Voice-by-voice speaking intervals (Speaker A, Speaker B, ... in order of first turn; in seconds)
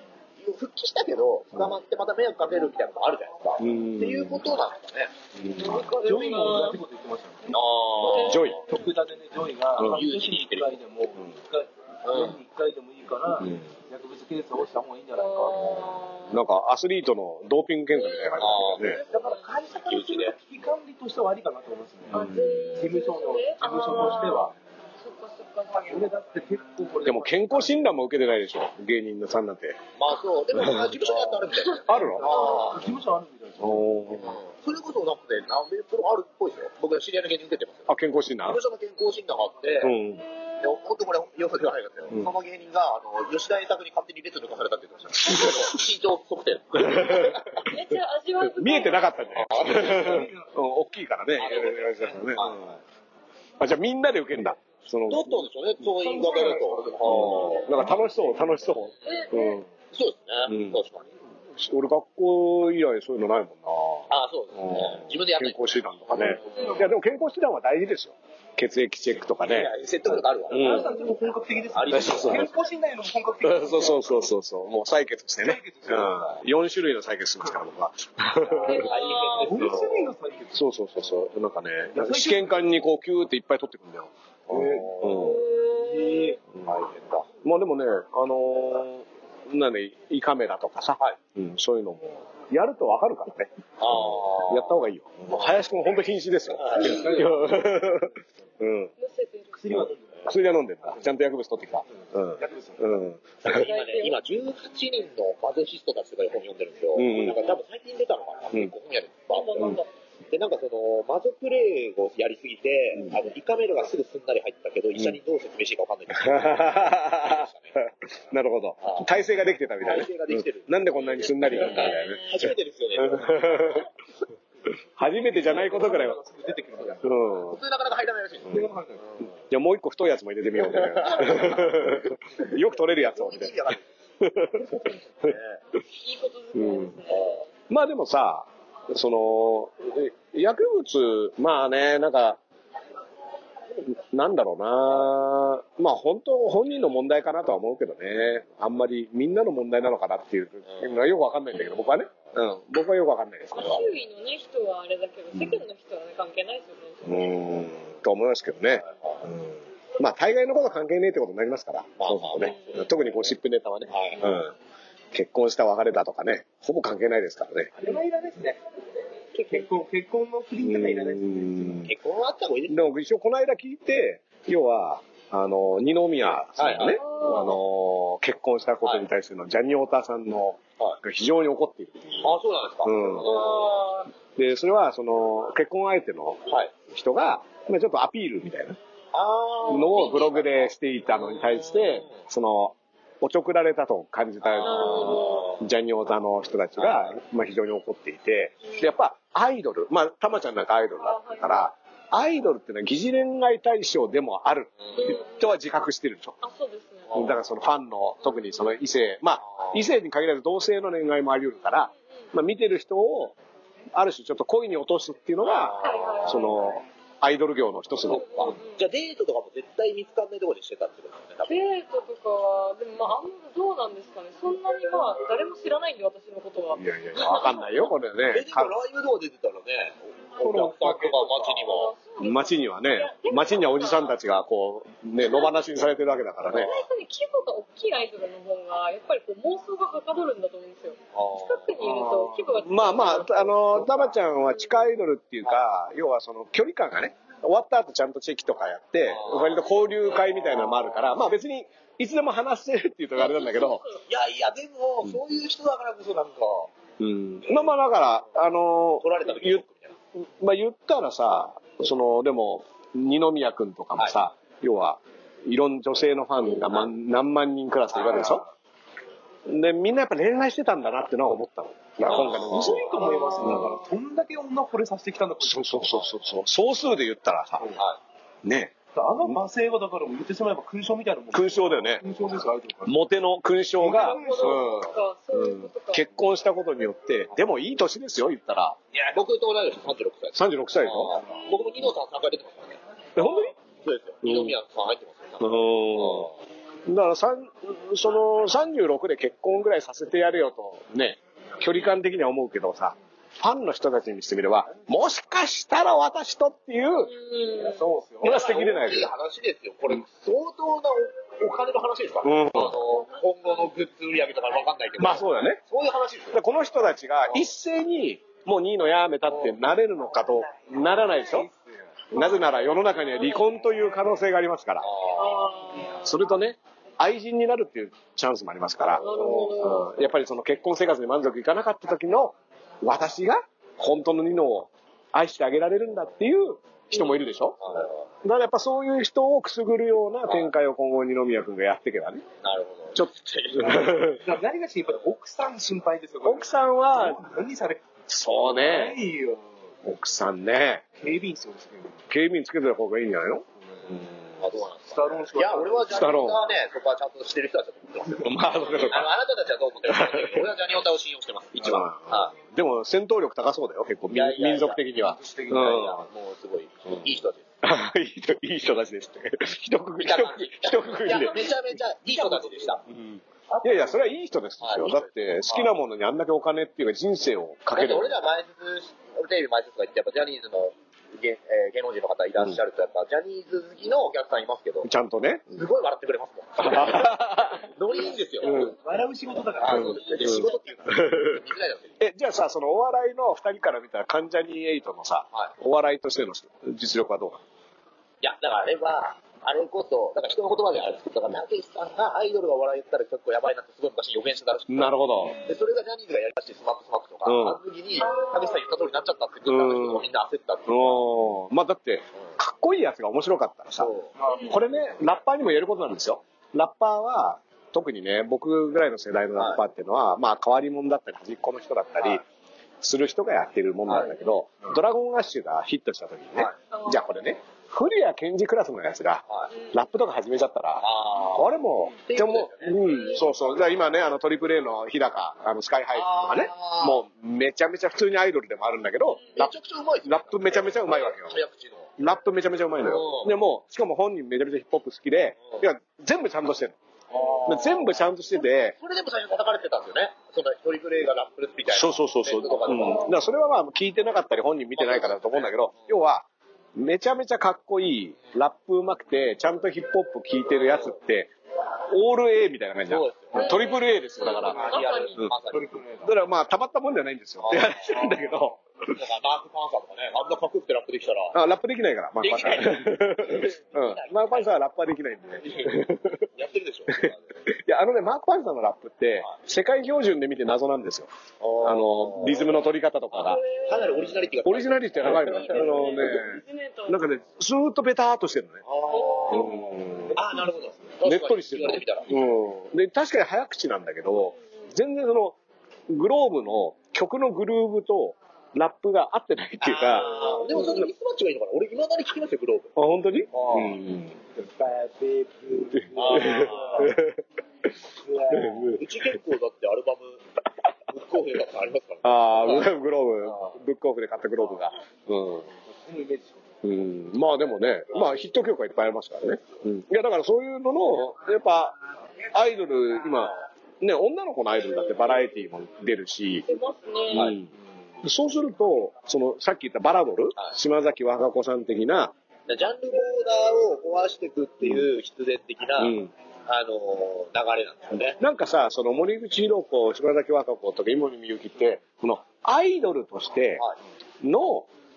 Speaker A: 0.4-5.1, 7.5-8.6, 9.8-10.8, 12.0-12.4, 18.4-19.0, 19.9-20.4, 30.0-32.9, 34.2-37.9, 38.4-40.0, 40.6-47.6, 49.3-50.3, 51.4-52.8, 55.1-57.8, 59.9-61.0, 64.1-66.9, 69.4-70.9, 71.7-72.6, 78.7-80.1, 84.5-85.4, 86.2-87.3, 93.8-95.5, 96.5-97.2, 103.4-109.7, 110.3-117.8, 118.8-119.1, 119.8-123.5, 127.3-129.3, 130.6-131.8, 132.4-133.8, 135.2-135.6, 137.1-137.4, 150.7-151.0, 158.8-159.2, 162.0-162.9, 163.9-164.4, 171.8-172.8, 176.6-177.3, 182.2-183.8, 186.5-186.7, 189.1-192.2, 194.4-195.6, 196.8-197.1, 204.8-205.2, 207.1-207.4, 209.4-209.8, 215.4-216.5, 218.1-221.7, 228.3-231.9, 241.1-242.0, 249.1-249.6, 254.1-256.7, 259.0-259.9, 267.9-268.4, 272.0-272.8, 288.9-292.8, 293.8-296.3, 308.2-316.4, 319.3-319.6, 324.8-325.5, 337.6-338.0, 342.4-343.9, 353.9-362.3, 364.1-364.8, 365.5-367.5, 370.0-372.8, 373.5-374.0, 374.6-375.7, 377.7-384.9, 385.5-388.7, 389.6-392.0, 398.2-411.1, 413.8-414.1, 419.4-419.6, 423.9-424.1, 430.8-433.1, 435.9-437.0, 439.3-441.9, 442.8-443.4, 447.1-453.1, 454.7-456.0, 460.6-461.0, 462.9-465.7, 467.4-468.2, 468.9-471.4, 472.2-474.5, 475.4-477.4, 481.4-482.6, 483.5-486.0, 488.6-489.6, 490.1-492.1, 499.6-502.7, 503.3-503.8, 505.9-506.9, 508.7-510.2, 510.9-512.7, 513.2-513.5, 532.5-538.2
Speaker B: 3.6-4.5, 5.3-5.9, 8.2-8.6, 13.4-13.7, 16.3-19.0, 22.1-22.9, 27.0-29.8, 30.5-30.9, 31.9-32.3, 33.6-34.4, 37.9-38.6, 39.8-40.2, 45.2-45.8, 46.7-47.8, 48.4-52.8, 53.6-55.5, 57.0-59.7, 60.5-60.8, 61.5-69.7, 70.5-70.9, 71.9-72.5, 73.4-78.9, 80.5-85.5, 87.4-98.9, 99.7-103.7, 106.9-107.5, 109.6-109.8, 116.1-117.5, 118.0-123.9, 125.0-126.2, 127.0-127.5, 129.5-133.6, 134.2-135.3, 136.5-137.0, 137.7-142.4, 143.7-153.9, 155.3-155.6, 157.0-164.5, 165.1-167.7, 170.6-171.9, 172.7-183.3, 184.3-188.8, 189.7-206.4, 207.1-213.3, 213.9-218.5, 226.7-228.7, 232.2-236.7, 242.6-253.8, 257.0-259.6, 260.1-268.4, 269.4-273.8, 275.4-277.8, 278.4-279.4, 281.3-282.0, 282.9-288.8, 290.3-291.2, 293.1-293.5, 294.2-294.6, 295.4-296.3, 296.9-307.1, 308.2-309.1, 312.2-312.8, 315.0-315.6, 316.3-321.5, 322.1-324.9, 326.0-337.6, 338.2-342.2, 342.9-344.2, 346.2-347.2, 348.1-349.0, 349.8-350.8, 352.1-353.4, 355.9-356.4, 358.2-359.1, 359.9-360.4, 361.6-366.0, 367.6-371.5, 372.9-378.1, 384.8-385.5, 386.6-387.7, 388.4-388.7, 389.7-391.4, 392.0-397.4, 404.7-405.4, 407.2-407.6, 409.5-410.1, 410.7-422.2, 422.8-439.5, 440.0-441.4, 442.0-446.8, 447.4-448.7, 451.7-461.3, 461.9-465.3, 466.0-468.6, 471.3-476.3, 477.4-481.1, 481.6-483.4, 484.4-488.6, 489.3-490.2, 491.0-495.4, 495.9-500.9, 502.8-504.1, 505.7-507.2, 508.3-508.8, 512.0-515.5, 516.6-521.8, 522.3-526.5, 527.1-527.5, 528.0-532.1, 535.8-536.1, 538.2-543.6, 544.2-544.7
Speaker C: 5.5-6.8, 8.0-8.6, 15.2-16.4, 17.9-19.6, 22.1-26.0, 32.2-32.6, 47.1-49.4, 59.0-59.6, 70.6-71.0, 78.4-79.8, 85.1-86.4, 99.0-99.8, 103.5-104.2, 109.3-109.9, 121.0-122.5, 134.7-135.0, 136.0-137.4, 151.6-151.9, 153.6-157.3, 162.4-162.9, 176.8-177.6, 183.1-184.1, 194.6-195.5, 198.6-198.9, 201.0-201.7, 204.9-205.5, 206.4-207.3, 208.2-208.8, 215.8-216.8, 218.1-218.8, 221.5-227.9, 231.6-234.3, 235.2-235.6, 236.5-243.8, 244.6-244.8, 253.2-254.0, 272.9-273.7, 283.9-286.1, 293.2-293.5, 307.0-307.9, 312.9-313.6, 322.1-323.5, 325.1-326.0, 329.0-329.9, 336.9-337.3, 408.0-408.6, 414.3-414.6, 426.7-427.2, 432.8-433.3, 463.3-465.2, 483.1-484.2, 485.0-487.0, 488.9-489.6, 526.5-527.3
Speaker D: 6.0-7.6, 8.1-16.0, 19.1-22.2, 22.7-24.5, 25.8-27.8, 32.0-33.8, 49.6-50.5, 56.0-58.6, 66.2-66.8, 70.5-74.2, 75.4-76.4, 79.2-80.7, 81.9-82.7, 96.8-97.7, 99.5-100.9, 102.3-102.8, 125.0-127.2, 128.5-129.0, 167.7-168.6, 169.3-171.9, 230.4-231.7, 272.1-276.1, 278.9-282.9, 283.8-284.8, 307.5-308.5, 321.2-321.7, 344.2-349.5, 350.9-352.0, 354.8-356.2, 365.0-365.8, 372.1-372.9, 388.4-390.1, 414.2-414.6, 464.4-464.8, 465.5-466.1, 489.9-490.9, 504.3-506.9, 508.0-508.8, 515.7-516.4